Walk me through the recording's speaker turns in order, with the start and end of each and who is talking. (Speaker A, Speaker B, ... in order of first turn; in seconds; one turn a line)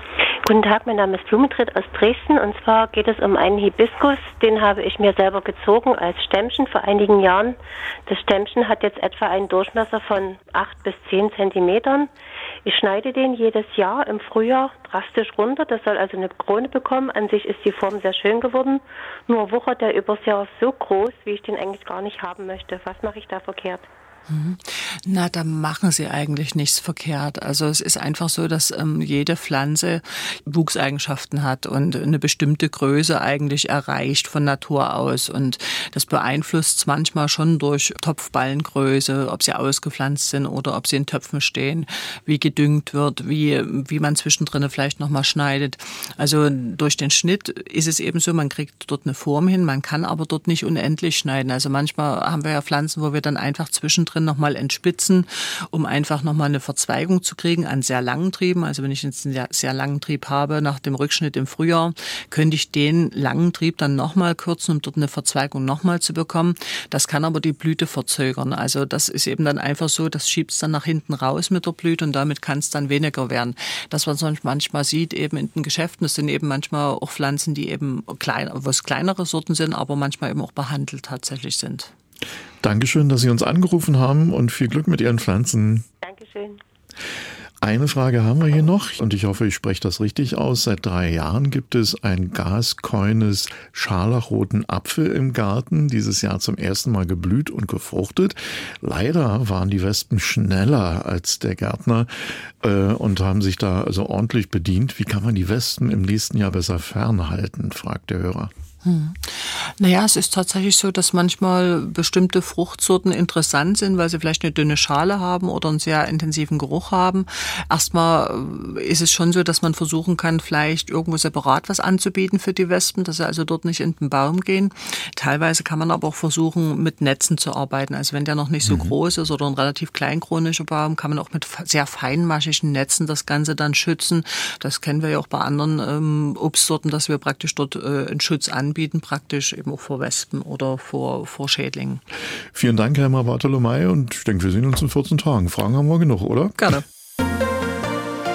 Speaker A: 0.4-12.1
Speaker A: 12.6-23.9
Speaker B: 24.3-81.9
Speaker C: 82.6-85.8
Speaker A: 86.0-86.6
Speaker C: 87.6-108.5
Speaker B: 108.8-142.0
Speaker C: 142.5-146.6
Speaker B: 146.6-146.8